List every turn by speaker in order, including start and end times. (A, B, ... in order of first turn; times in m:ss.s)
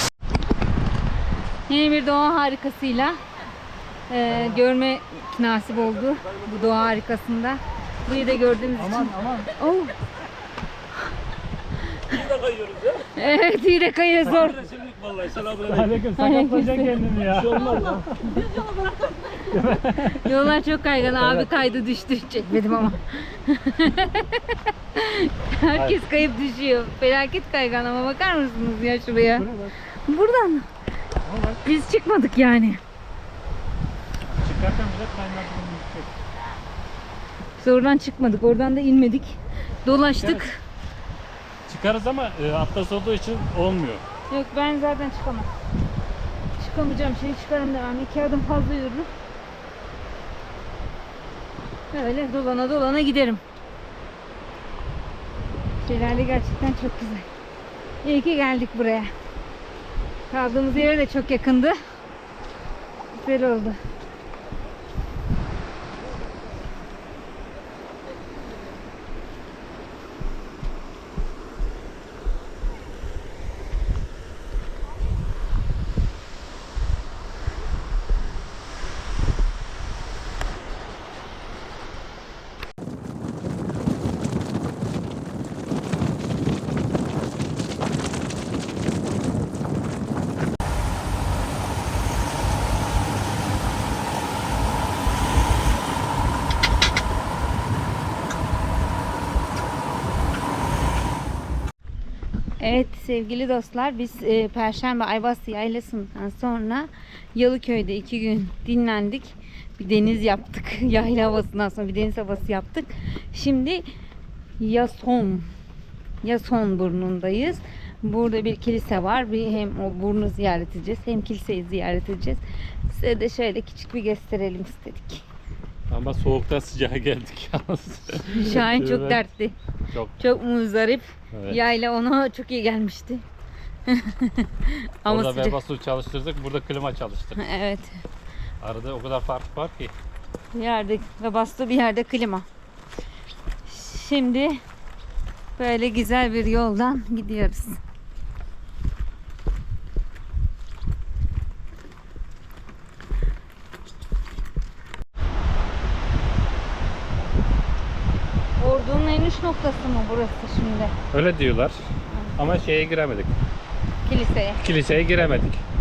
0:01.7-0:03.2 A
0:04.1-0:10.0 A
0:04.3-0:04.6 B
0:08.8-0:09.5 B
0:12.2-0:13.0 C
0:13.2-0:14.7 A
0:14.3-0:14.5 B
0:14.3-0:15.9 C
0:15.5-0:18.2 B
0:16.2-0:17.0 A
0:17.3-0:18.4 C
0:19.5-0:20.4 B
0:20.2-0:29.5 A
0:21.2-0:21.5 B
0:25.7-0:26.1 B
0:29.3-0:29.8 B
0:30.1-0:30.7 A
0:31.2-0:31.6 B
0:31.6-0:32.8 A
0:34.2-0:36.1 B
0:37.6-0:40.6 A
0:40.1-0:40.5 B
0:41.7-0:44.0 B
0:44.3-0:45.5 A
0:46.6-0:49.1 A
0:51.9-0:53.4 A
0:55.8-0:57.3 A
0:58.0-0:59.1 A
1:00.3-1:01.8 A
1:03.1-1:03.8 A
1:42.6-1:53.8 A
1:54.6-1:55.5 A
1:56.2-2:05.3 A
2:05.9-2:09.2 B
2:08.3-2:09.6 A
2:09.9-2:10.2 B
2:10.2-2:13.2 A
2:11.3-2:11.6 B
2:13.9-2:15.6 A
2:15.1-2:17.4 B
2:17.4-2:18.0 A
2:18.6-2:19.9 B
2:20.5-2:22.5 A
2:23.7-2:24.6 A
2:25.6-2:27.8 A
2:38.6-2:40.9 A
2:41.1-2:43.4 B
2:42.1-2:42.4 A
2:44.0-2:44.7 A
2:44.6-2:45.6 B